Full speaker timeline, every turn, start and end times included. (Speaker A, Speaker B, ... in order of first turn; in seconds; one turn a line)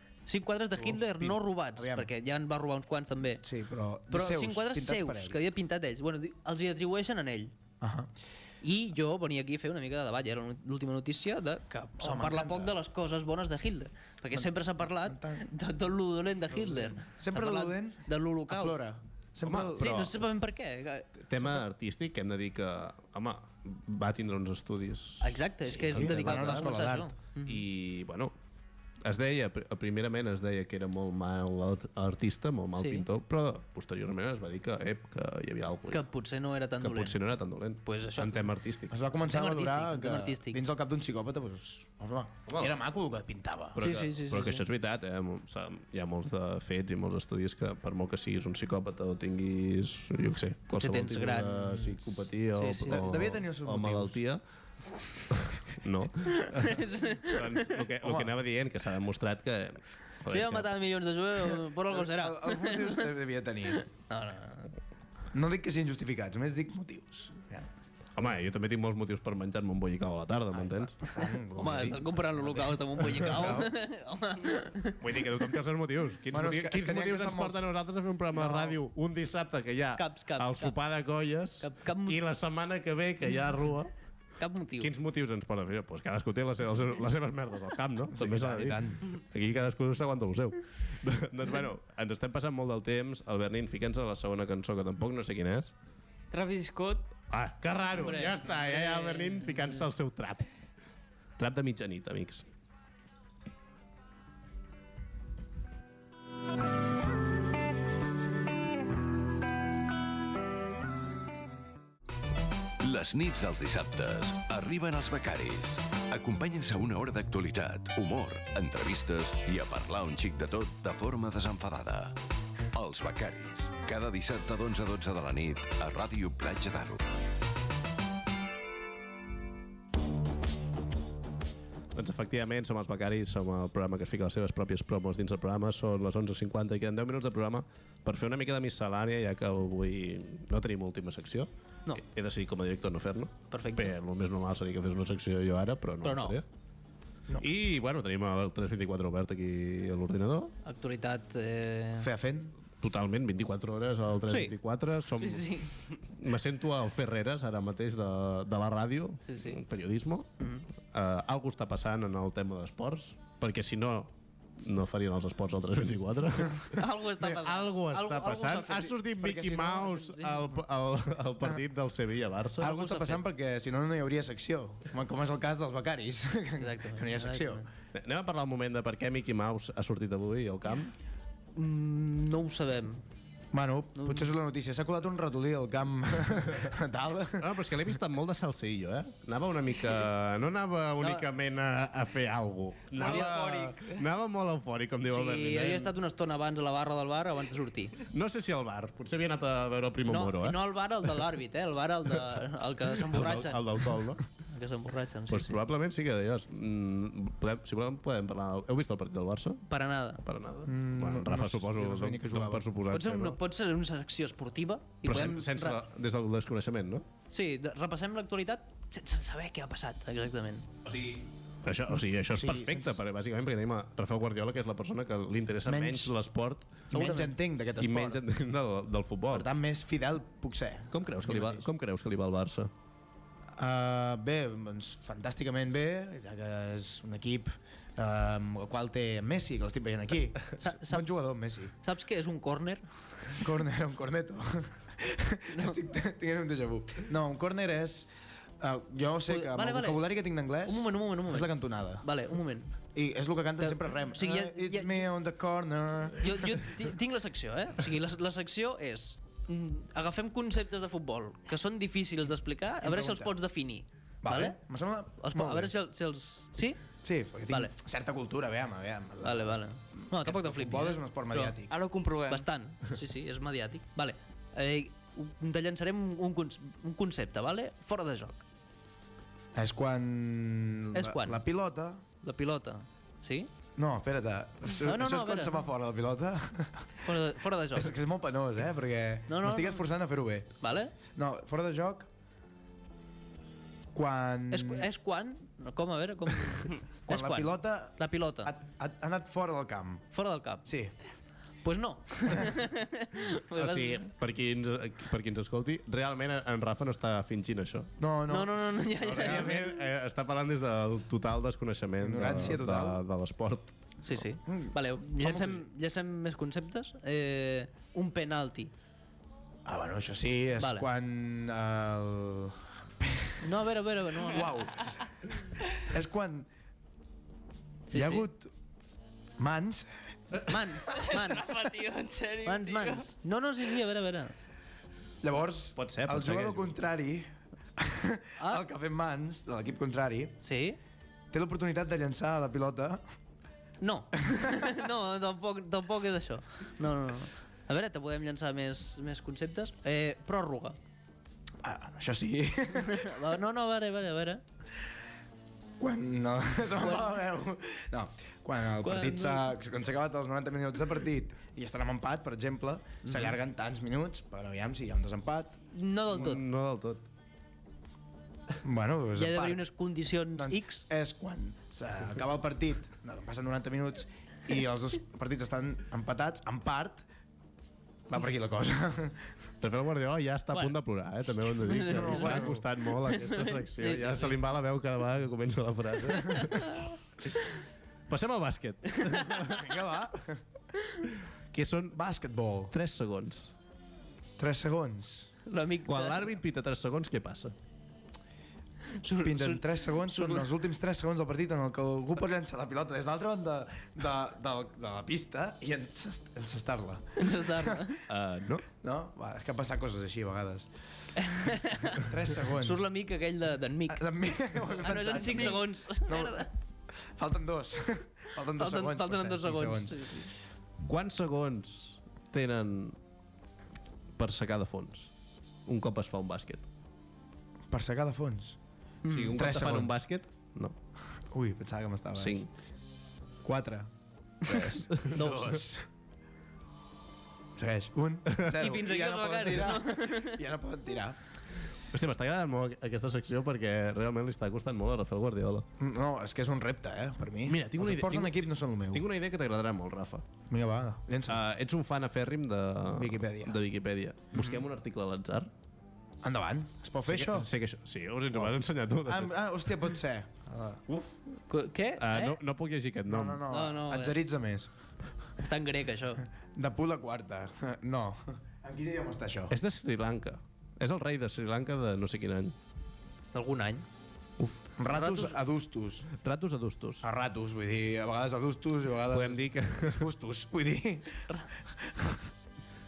Speaker A: 0.3-3.5
Speaker B: 1.8-2.1
Speaker B: 3.4-5.4
Speaker A: 4.1-7.5
Speaker B: 7.8-8.1
Speaker A: 8.6-18.8
Speaker B: 12.0-12.7
Speaker B: 15.0-15.4
Speaker B: 16.6-20.1
Speaker C: 19.4-20.2
Speaker A: 19.8-21.2
Speaker C: 21.3-26.8
Speaker A: 25.2-27.6
Speaker B: 25.7-27.1
Speaker C: 27.4-28.3
Speaker C: 29.0-36.1
Speaker A: 32.8-33.1
Speaker A: 35.9-37.2
Speaker C: 36.8-39.0
Speaker A: 37.9-38.5
Speaker B: 38.9-43.8
Speaker A: 39.3-40.6
Speaker C: 42.5-42.7
Speaker C: 43.8-54.4
Speaker A: 43.8-44.6
Speaker A: 50.8-53.2
Speaker B: 52.9-54.2
Speaker C: 55.3-60.7
Speaker A: 56.2-57.8
Speaker B: 58.0-58.3
Speaker A: 60.3-63.1
Speaker B: 61.9-63.8
Speaker A: 63.8-64.7
Speaker B: 65.3-67.7
Speaker C: 68.2-71.1
Speaker B: 70.5-73.7
Speaker A: 71.2-75.0
Speaker C: 75.0-83.9
Speaker B: 76.3-77.7
Speaker B: 78.4-78.7
Speaker A: 80.0-80.8
Speaker A: 81.6-82.2
Speaker A: 84.4-84.9
Speaker C: 84.8-95.7
Speaker B: 88.1-89.0
Speaker D: 96.3-97.1
Speaker C: 97.3-100.5
Speaker A: 98.0-99.8
Speaker C: 101.4-102.5
Speaker E: 112.8-122.2
Speaker E: 122.7-127.1
Speaker C: 131.9-146.4
Speaker A: 143.5-143.9
Speaker A: 146.0-146.4
Speaker C: 147.4-150.5
Speaker A: 150.6-152.1
Speaker B: 152.0-152.6
Speaker C: 152.8-160.3
Speaker A: 154.3-154.5
Speaker A: 155.2-155.7
Speaker A: 159.3-159.6
Speaker A: 160.4-160.7
Speaker C: 160.9-172.8
Speaker A: 166.6-168.9
Speaker B: 169.2-170.1
Speaker B: 172.6-177.6
Speaker A: 172.6-173.2
Speaker A: 176.6-177.7
Speaker C: 177.9-180.9
Speaker A: 181.6-183.0
Speaker B: 183.5-187.5
Speaker A: 184.0-184.3
Speaker C: 187.4-195.9
Speaker A: 191.0-191.3
Speaker D: 193.0-194.0
Speaker A: 193.0-193.3
Speaker A: 195.1-198.0
Speaker C: 198.1-201.1
Speaker A: 200.1-205.6
Speaker C: 202.9-204.2
Speaker C: 205.3-209.7
Speaker A: 209.7-210.2
Speaker C: 210.2-213.4
Speaker B: 210.7-212.7
Speaker A: 212.9-215.8
Speaker C: 215.0-217.1
Speaker A: 217.3-220.7
Speaker C: 220.8-226.9
Speaker B: 222.3-223.0
Speaker B: 225.7-226.1
Speaker B: 226.9-228.2
Speaker A: 226.9-227.3
Speaker C: 227.8-229.5
Speaker B: 229.3-231.7
Speaker C: 230.9-232.7
Speaker B: 233.6-241.7
Speaker A: 240.6-242.8
Speaker B: 243.4-248.1
Speaker A: 245.5-245.8
Speaker B: 248.6-252.1
Speaker A: 249.3-250.1
Speaker A: 250.6-252.7
Speaker B: 252.9-256.7
Speaker A: 253.6-255.1
Speaker A: 256.2-264.6
Speaker B: 262.8-263.3
Speaker B: 264.2-265.7
Speaker A: 265.2-266.8
Speaker B: 267.0-271.7
Speaker A: 269.2-271.5
Speaker D: 271.7-272.5
Speaker A: 272.3-278.4
Speaker B: 279.5-282.0
Speaker A: 280.9-281.4
Speaker A: 282.2-283.5
Speaker B: 283.8-286.9
Speaker A: 284.7-285.7
Speaker A: 287.0-287.9
Speaker B: 287.8-290.5
Speaker A: 289.3-289.9
Speaker A: 290.6-290.9
Speaker B: 291.1-292.1
Speaker B: 293.9-294.9
Speaker A: 294.5-298.5
Speaker B: 297.1-300.1
Speaker A: 300.1-300.7
Speaker B: 300.7-300.9
Speaker A: 301.6-304.1
Speaker C: 303.6-307.9
Speaker B: 308.0-309.7
Speaker A: 308.3-309.7
Speaker C: 309.1-313.7
Speaker B: 312.0-313.0
Speaker A: 314.0-318.7
Speaker B: 314.5-315.6
Speaker B: 319.6-323.4
Speaker A: 320.6-320.9
Speaker A: 323.4-324.7
Speaker B: 324.2-326.5
Speaker B: 327.9-328.5
Speaker A: 327.9-328.3
Speaker B: 329.4-329.9
Speaker A: 330.4-331.8
Speaker D: 330.9-333.1
Speaker A: 332.4-334.3
Speaker B: 335.2-340.4
Speaker C: 335.8-336.8
Speaker A: 338.4-338.6
Speaker A: 340.4-340.8
Speaker B: 341.3-343.0
Speaker A: 343.8-350.8
Speaker B: 344.3-344.6
Speaker B: 351.6-353.2
Speaker A: 352.8-354.4
Speaker B: 355.8-365.6
Speaker A: 358.8-359.5
Speaker A: 363.0-363.3
Speaker A: 365.7-366.4
Speaker C: 366.1-367.1
Speaker B: 368.6-369.7
Speaker A: 369.1-370.9
Speaker B: 370.4-377.1
Speaker B: 378.1-379.3
Speaker C: 379.6-386.9
Speaker A: 380.5-380.8
Speaker A: 381.4-384.4
Speaker B: 381.7-382.6
Speaker C: 388.1-390.0
Speaker B: 389.4-390.4
Speaker C: 391.5-392.0
Speaker B: 391.9-392.7
Speaker C: 392.7-393.5
Speaker B: 394.4-395.3
Speaker A: 395.5-396.4
Speaker C: 395.9-397.5
Speaker A: 399.0-400.5
Speaker B: 399.2-407.8
Speaker A: 407.2-408.0
Speaker C: 408.1-408.7
Speaker B: 408.8-412.9
Speaker A: 411.2-416.5
Speaker B: 413.9-420.1
Speaker A: 418.6-420.3
Speaker C: 420.9-423.0
Speaker C: 424.2-425.1
Speaker C: 425.7-426.7
Speaker B: 427.7-428.6
Speaker A: 429.0-429.4
Speaker C: 429.1-430.8
Speaker B: 429.4-429.9
Speaker B: 431.3-432.5
Speaker C: 432.2-432.5
Speaker B: 433.4-433.9
Speaker B: 434.4-435.9
Speaker C: 434.5-435.7
Speaker B: 437.6-441.2
Speaker C: 438.4-438.6
Speaker A: 438.5-440.4
Speaker C: 441.9-445.7
Speaker B: 445.8-449.1
Speaker C: 447.4-450.2
Speaker B: 450.5-451.4
Speaker C: 451.3-455.5
Speaker B: 452.9-453.6
Speaker B: 456.2-457.5
Speaker C: 457.1-459.3
Speaker B: 459.0-460.8
Speaker C: 460.9-461.2
Speaker A: 461.5-462.4
Speaker C: 462.0-463.4
Speaker B: 463.1-464.7
Speaker A: 463.5-464.2
Speaker A: 465.4-466.3
Speaker B: 466.5-469.6
Speaker C: 469.5-472.6
Speaker A: 473.3-473.9
Speaker B: 474.8-476.1
Speaker A: 474.9-475.4
Speaker C: 476.2-477.1
Speaker B: 477.0-482.3
Speaker C: 479.1-480.1